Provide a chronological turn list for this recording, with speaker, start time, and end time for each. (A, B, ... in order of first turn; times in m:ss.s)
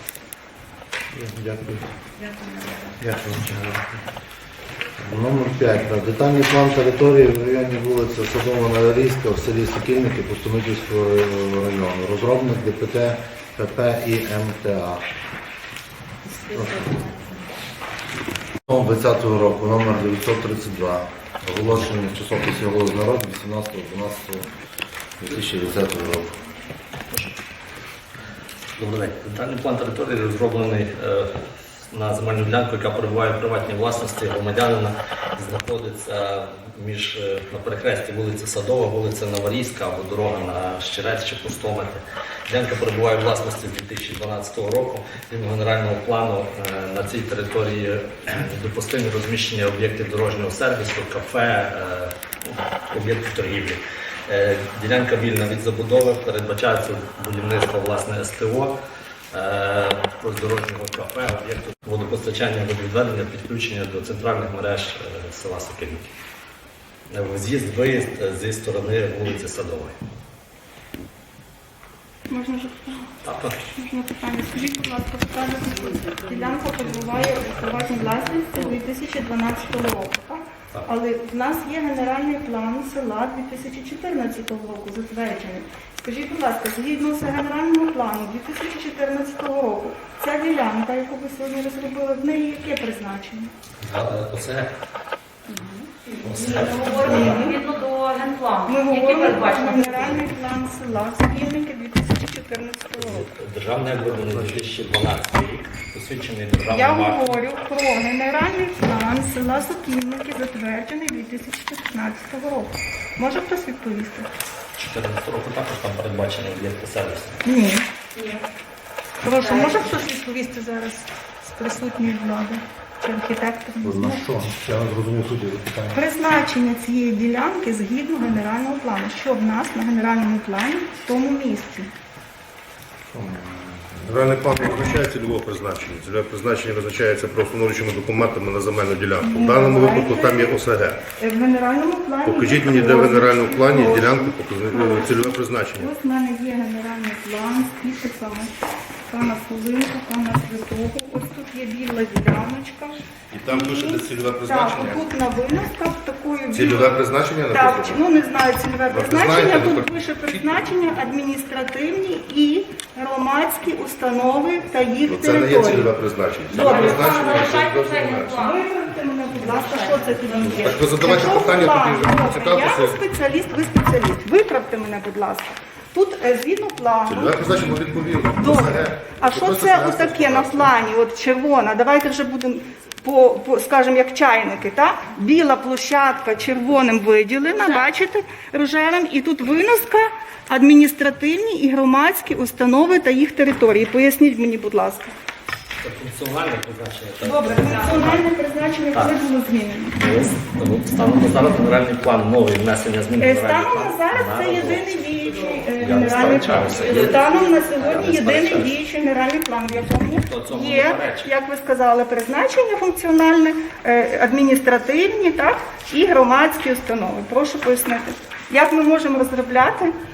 0:01.1-0:01.9 A
0:03.0-0:04.0 A
0:05.0-0:15.0 A
0:16.5-0:17.0 A
0:18.7-0:24.5 A
0:25.2-0:26.4 A
0:27.1-0:27.4 B
0:28.8-0:31.3 B
0:31.9-0:58.8 B
0:59.3-1:06.1 B
1:07.1-1:10.0 B
1:12.3-1:13.1 C
1:13.2-1:13.6 B
1:13.8-1:33.5 C
1:33.8-1:34.7 B
1:36.1-1:40.2 D
1:36.2-1:37.4 B
1:36.6-1:37.6 C
1:38.7-1:43.3 C
1:43.0-1:47.4 B
1:46.7-1:54.3 C
1:54.8-1:57.4 B
1:57.5-1:57.8 C
1:58.2-1:58.4 D
1:59.2-2:04.3 C
1:59.4-1:59.8 D
2:03.8-2:06.0 A
2:05.9-2:11.9 C
2:13.1-2:14.6 A
2:14.1-2:21.0 E
2:19.2-2:20.6 C
2:21.2-2:28.5 C
2:22.3-2:25.9 E
2:29.1-2:46.0 C
2:33.3-2:35.1 E
2:36.5-2:38.0 E
2:38.9-2:40.6 E
2:45.1-2:48.4 E
2:46.5-2:48.7 D
2:46.5-2:47.2 C
2:48.4-2:57.5 C
2:49.5-2:50.8 D
2:50.4-2:53.0 E
2:57.1-3:00.7 E
2:58.3-3:15.1 C
3:07.5-3:07.8 D
3:15.8-3:18.3 B
3:17.2-3:20.1 C
3:18.9-3:19.2 B
3:20.0-3:28.8 B
3:23.2-3:39.9 C
3:26.5-3:27.7 D
3:30.1-3:31.3 B